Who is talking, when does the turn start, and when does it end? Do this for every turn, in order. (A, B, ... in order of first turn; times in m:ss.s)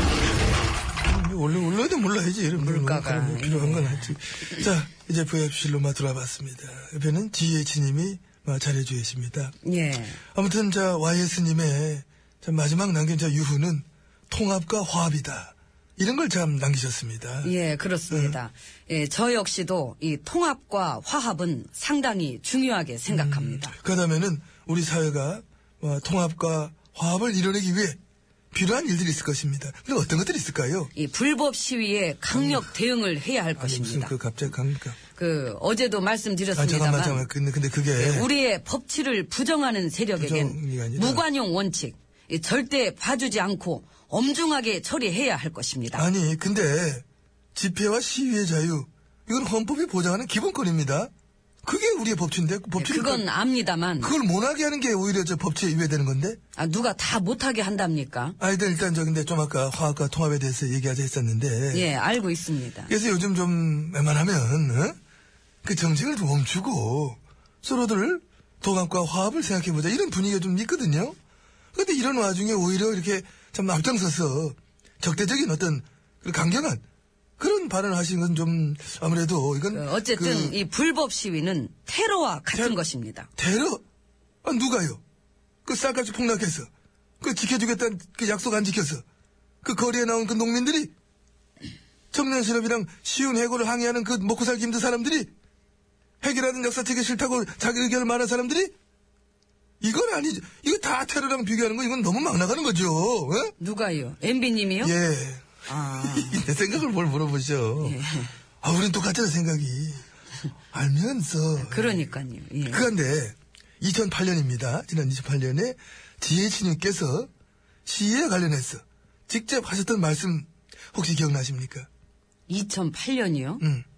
0:00.9-0:09.6 A
0:02.6-0:04.6 B
0:09.6-0:10.2 B
0:10.3-0:17.6 A
0:17.4-0:23.8 B
0:18.1-0:18.4 A
0:23.1-0:28.0 A
0:28.5-0:30.9 A
0:30.9-0:34.2 B
0:32.3-0:32.7 A
0:33.6-0:35.0 A
0:35.1-0:37.3 B
0:36.5-0:38.3 A
0:38.0-0:46.1 B
0:40.2-0:41.2 A
0:45.9-0:51.1 A
0:51.6-0:53.3 A
0:52.8-0:54.2 B
0:54.0-0:56.4 A
0:56.6-0:58.4 B
0:58.4-1:01.9 A
1:01.7-1:02.9 B
1:02.9-1:05.0 A
1:05.6-1:11.2 A
1:11.7-1:16.8 A
1:17.4-1:20.6 A
1:19.7-1:23.3 B
1:22.5-1:22.8 A
1:23.4-1:23.8 A
1:24.4-1:25.0 A
1:25.6-1:26.7 A
1:27.2-1:29.0 A
1:29.6-1:30.9 A
1:32.1-1:35.3 A
1:36.2-1:38.7 A
1:39.8-1:43.5 A
1:43.6-1:45.0 B
1:44.8-1:48.0 A
1:45.7-1:46.4 B
1:47.8-1:48.4 B
1:48.6-1:50.1 A
1:50.7-1:52.1 A
1:51.6-1:52.9 B
1:52.7-1:57.3 A
1:57.9-2:01.9 A
2:02.5-2:03.6 B